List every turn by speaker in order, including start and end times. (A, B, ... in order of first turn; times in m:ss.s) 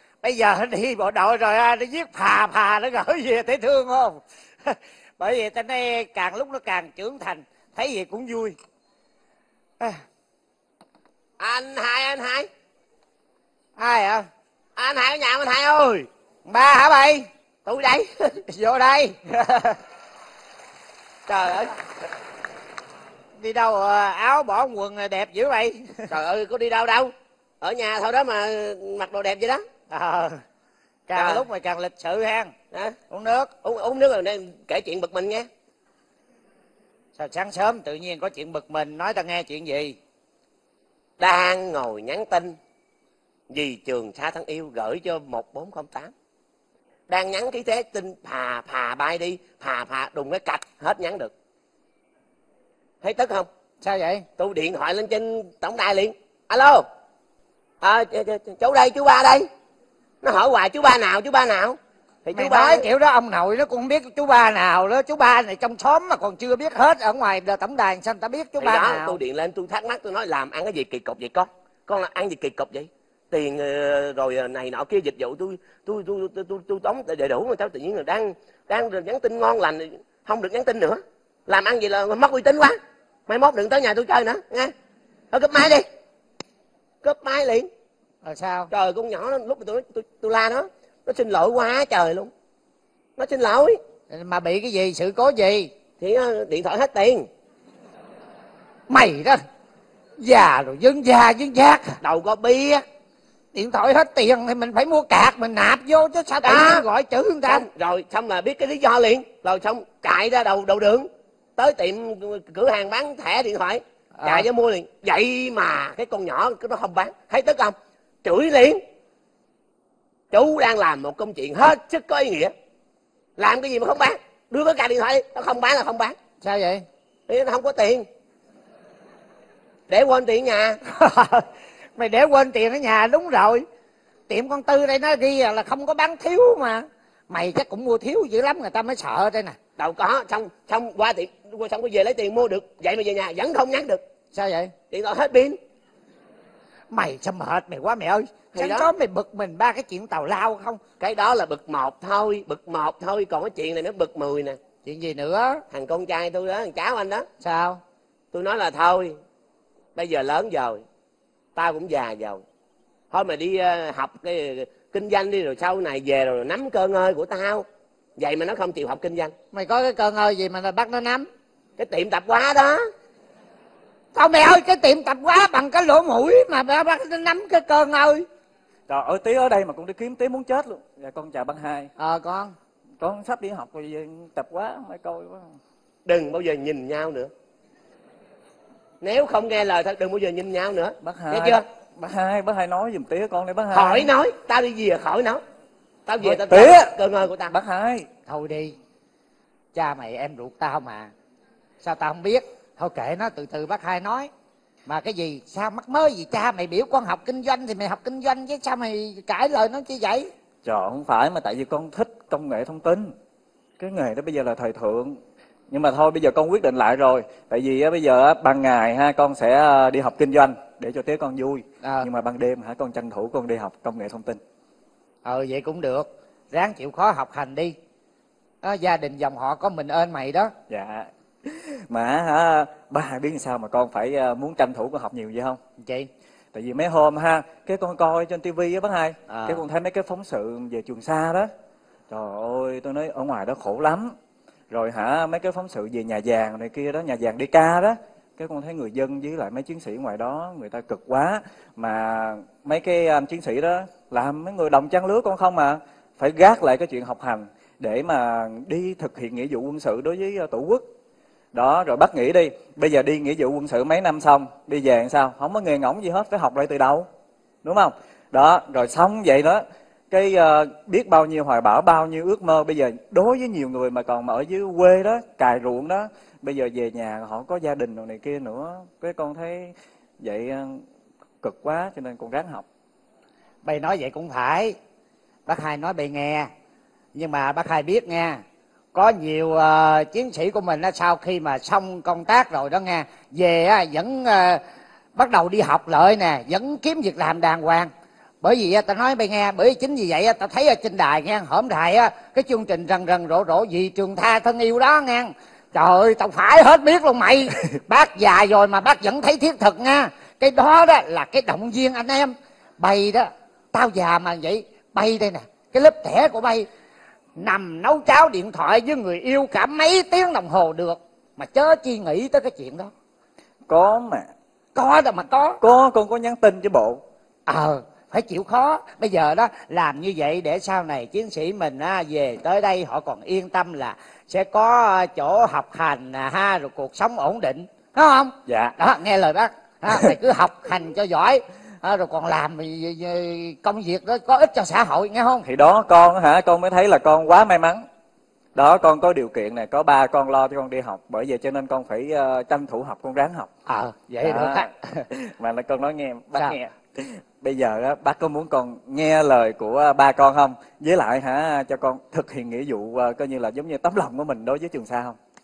0:00.2-0:08.6 A
0:11.4-0:12.5 B
0:13.8-0:14.3 A
0:14.8-0:16.1 B
0:16.5-0:17.3 A
0:17.6-0:18.1 B
0:18.4-0:19.8 A
0:21.3-0:21.8 B
0:23.4-0:26.1 A
0:26.1-0:29.6 B
0:29.9-0:30.4 A
0:31.1-0:32.5 A
0:31.2-0:31.4 B
0:33.1-0:33.5 A
0:33.6-0:35.5 B
0:37.2-0:40.0 A
0:41.2-0:42.6 B
0:43.5-0:46.1 B
0:47.1-0:51.3 B
0:53.0-0:53.5 B
0:53.8-0:54.2 A
0:54.4-0:56.8 B
0:57.8-0:59.4 B
1:00.2-1:02.8 B
1:02.3-1:09.2 A
1:08.6-1:22.8 B
1:23.3-1:24.7 B
1:25.3-1:25.8 B
1:27.0-1:27.7 B
1:28.2-1:28.7 A
1:28.7-1:32.3 B
1:33.2-1:33.8 B
1:34.1-1:35.7 A
1:36.0-1:37.3 B
1:38.9-1:39.4 A
1:40.2-1:42.0 A
1:42.0-1:42.8 B
1:43.5-1:47.6 A
1:46.4-1:46.8 B
1:47.5-1:58.8 B
1:54.2-1:54.5 A
2:00.3-2:02.5 B
2:03.4-2:06.2 B
2:06.4-2:06.8 A
2:07.3-2:08.0 B
2:09.9-2:10.8 B
2:10.9-2:13.6 A
2:14.3-2:19.6 A
2:19.8-2:24.0 B
2:24.3-2:24.7 A
2:24.9-2:25.6 B
2:26.9-2:30.8 A
2:28.6-2:28.9 B
2:31.0-2:34.6 B
2:34.8-2:35.6 A
2:35.7-2:37.2 B
2:37.4-2:37.8 A
2:38.3-2:39.2 B
2:40.0-2:40.8 B
2:41.6-2:42.4 B
2:43.1-2:47.6 B
2:48.2-2:49.3 B
2:49.5-2:51.3 A
2:51.8-2:52.8 B
2:54.1-2:58.2 A
2:58.9-3:01.9 C
3:02.0-3:02.5 A
3:03.0-3:05.6 C
3:06.0-3:07.3 B
3:09.0-3:11.6 B
3:11.0-3:14.1 C
3:13.7-3:15.4 B
3:16.1-3:17.5 B
3:16.2-3:18.1 C
3:18.3-3:18.8 A
3:19.7-3:21.1 A
3:21.8-3:24.3 A
3:24.9-3:30.3 A
3:30.6-3:33.1 C
3:33.8-3:35.2 C
3:35.7-3:44.4 C
3:41.8-3:42.1 A
3:45.2-3:47.8 A
3:48.6-3:50.5 A
3:50.7-3:55.6 C
3:55.8-3:56.1 A
3:56.5-4:01.5 C
3:59.3-3:59.6 A
4:02.1-4:04.1 C
4:04.7-4:20.8 C
4:21.5-4:27.1 C
4:27.6-4:40.8 C
4:41.4-4:42.6 C
4:43.6-4:44.8 A
4:45.5-4:46.5 A
4:47.1-4:48.4 A
4:48.9-4:54.6 A
4:55.2-4:57.9 A
4:58.4-5:16.7 A
5:17.4-5:22.9 A
5:23.7-5:24.3 C
5:24.8-5:25.6 A
5:25.6-5:27.0 C
5:27.5-5:45.5 A
5:38.5-5:38.7 C
5:45.5-5:47.8 C
5:48.6-5:53.5 C
5:53.7-5:55.1 A
5:54.2-6:05.2 C